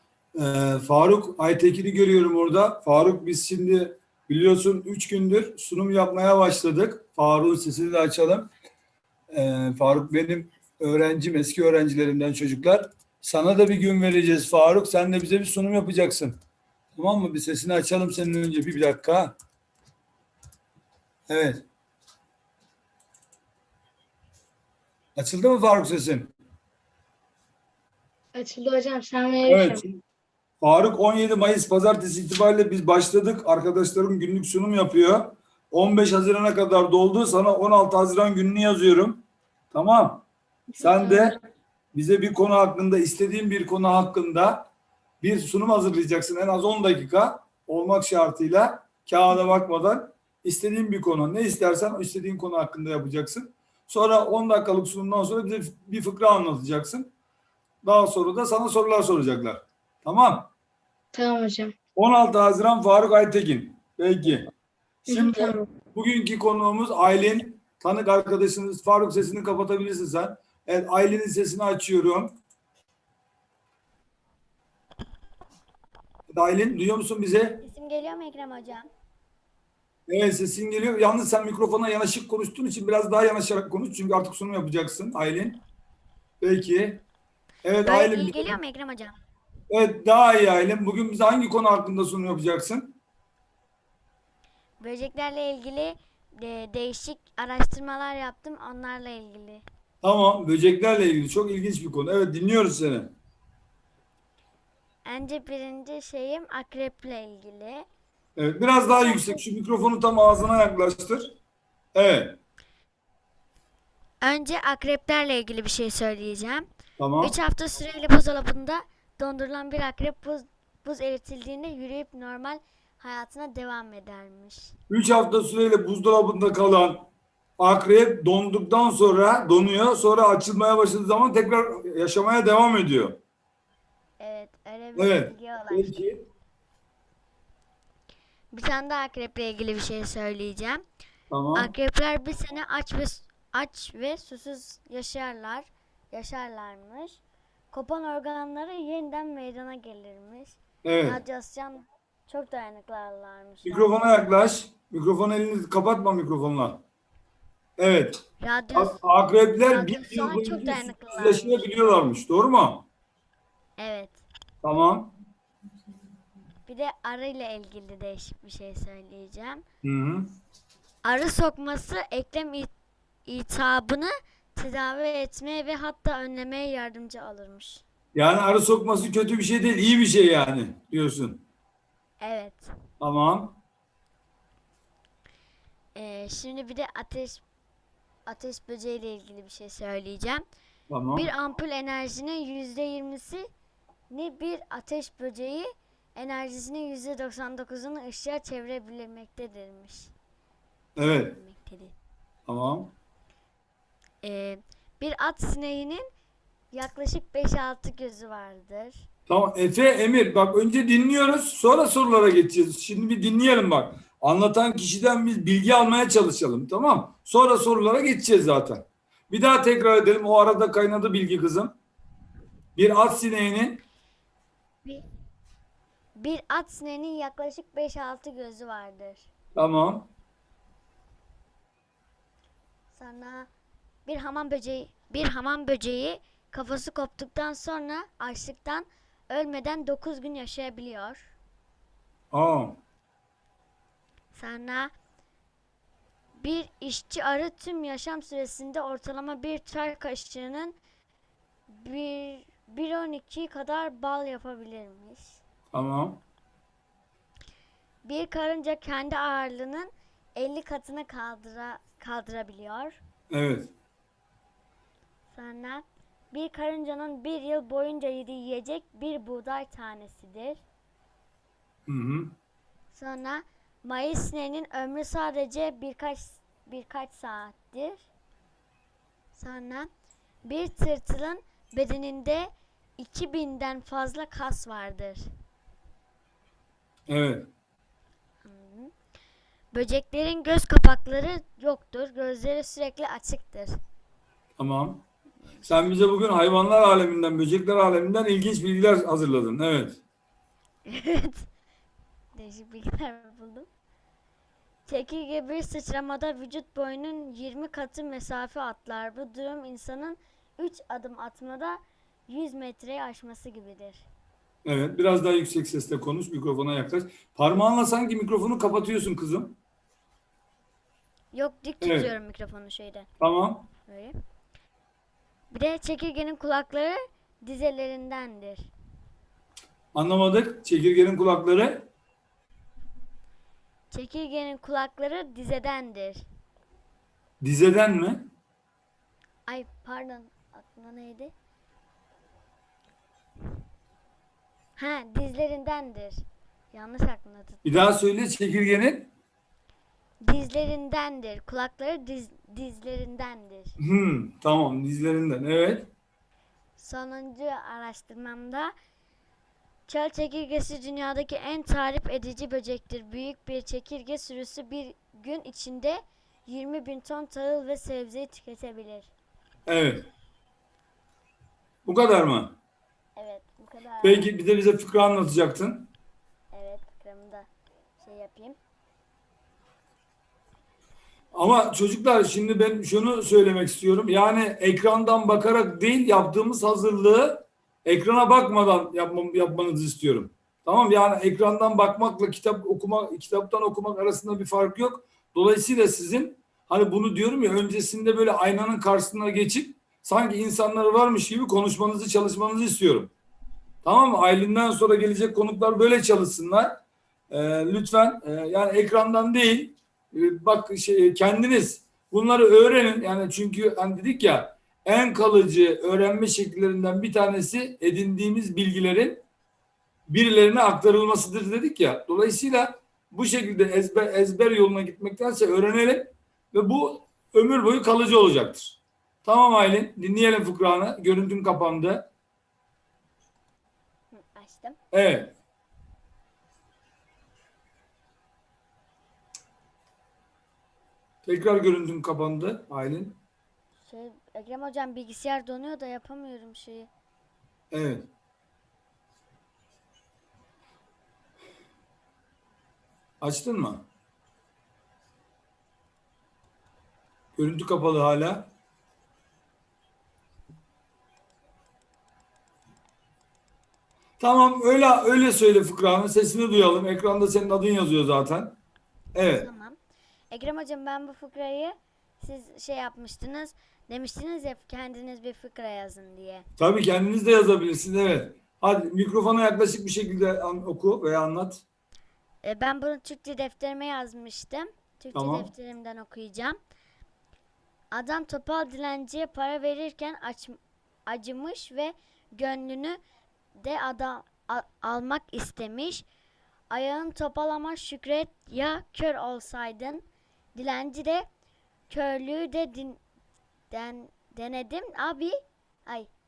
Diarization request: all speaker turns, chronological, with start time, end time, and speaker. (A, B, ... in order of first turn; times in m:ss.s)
0:00.3-0:08.5 A
0:09.3-0:16.4 A
0:17.0-0:19.3 A
0:21.3-0:21.6 A
0:25.2-0:26.3 A
0:28.4-0:29.8 B
0:29.5-0:30.0 A
0:30.6-0:40.2 A
0:40.8-0:41.4 A
0:40.8-0:41.2 B
0:41.9-0:44.7 A
0:45.2-0:57.1 A
0:57.8-1:00.5 A
1:01.1-1:01.7 B
1:02.0-1:04.5 A
1:05.1-1:12.4 A
1:05.1-1:05.6 B
1:16.3-1:17.6 A
1:17.6-1:18.9 C
1:20.1-1:25.6 A
1:26.4-1:27.0 A
1:27.6-1:28.6 A
1:27.8-1:29.2 C
1:29.7-1:33.0 A
1:34.8-1:39.6 C
1:40.0-1:43.1 A
1:45.0-1:47.8 C
1:48.4-1:51.3 A
1:51.9-1:52.4 A
1:54.2-1:56.7 C
1:57.0-1:57.3 A
1:57.2-2:04.7 C
2:04.9-2:07.1 A
2:07.6-2:13.2 A
2:14.2-2:16.0 C
2:15.0-2:16.2 A
2:18.5-2:20.8 C
2:21.3-2:21.7 A
2:21.6-2:27.2 C
2:27.7-2:34.3 C
2:30.8-2:31.2 A
2:33.6-2:36.8 A
2:37.8-2:38.2 A
2:38.4-2:39.0 C
2:38.7-2:42.8 A
2:39.7-2:42.0 C
2:43.8-2:44.2 C
2:44.6-2:45.1 A
2:46.7-2:49.6 C
2:49.8-2:50.3 A
2:51.0-2:52.7 C
2:53.3-2:57.8 C
2:58.2-3:01.4 A
3:02.2-3:02.7 C
3:03.0-3:03.6 A
3:05.9-3:07.4 C
3:08.3-3:10.4 C
3:10.9-3:11.3 A
3:11.1-3:13.5 C
3:14.1-3:20.1 C
3:21.0-3:21.4 A
3:21.0-3:22.0 C
3:22.5-3:22.9 A
3:24.2-3:26.1 C
3:26.7-3:29.1 C
3:29.3-3:41.7 A
3:42.8-3:43.8 A
3:46.2-3:49.3 C
3:49.6-3:50.1 A
3:52.9-3:53.5 C
3:54.1-4:01.3 C
4:02.3-4:02.8 A
4:04.3-4:04.9 C
4:06.4-4:10.8 C
4:11.7-4:15.4 C
4:15.7-4:16.2 A
4:18.0-4:23.0 C
4:23.3-4:23.7 A
4:25.3-4:30.6 C
4:31.9-4:32.3 A
4:32.9-4:38.1 C
4:39.4-4:39.9 C
4:40.4-4:45.2 C
4:47.1-4:47.5 A
4:48.4-4:48.9 C
4:49.7-4:53.8 C
4:54.6-4:55.0 A
4:55.5-4:55.9 C
4:55.7-5:00.0 A
5:00.9-5:01.4 C
5:02.4-5:03.7 C
5:04.9-5:14.0 C
5:14.6-5:19.6 A
5:21.3-5:23.1 C
5:21.8-5:22.1 A
5:23.2-5:23.7 A
5:23.9-5:24.1 C
5:25.5-5:28.7 C
5:29.9-5:31.9 A
5:33.9-5:36.2 C
5:37.4-5:38.2 A
5:39.5-5:41.3 C
5:44.8-5:47.8 C
5:47.6-5:49.1 A
5:50.2-5:53.8 C
5:53.8-5:55.9 A
5:56.8-5:58.7 C
5:59.9-6:09.1 C
6:09.7-6:10.1 A
6:11.8-6:12.6 A
6:13.2-6:14.3 C
6:14.0-6:15.9 A
6:16.5-6:17.5 C
6:18.0-6:18.6 C
6:21.3-6:43.1 A
6:43.8-6:59.2 A
7:00.1-7:12.1 A
7:14.1-7:14.8 C
7:14.9-7:15.3 A
7:21.2-7:23.2 A
7:23.9-7:26.9 C
7:27.7-7:28.1 A
7:33.2-7:33.8 A
7:37.4-7:38.5 A
7:44.2-7:48.6 A
7:49.2-7:49.5 A
7:49.3-7:49.8 C
7:50.3-7:56.4 C
7:56.6-8:01.6 A
8:02.4-8:06.6 C
8:05.1-8:05.5 A
8:07.9-8:13.0 C
8:13.6-8:16.0 C
8:16.7-8:20.0 C
8:20.6-8:21.3 C
8:21.9-8:23.0 C
8:23.7-8:26.1 C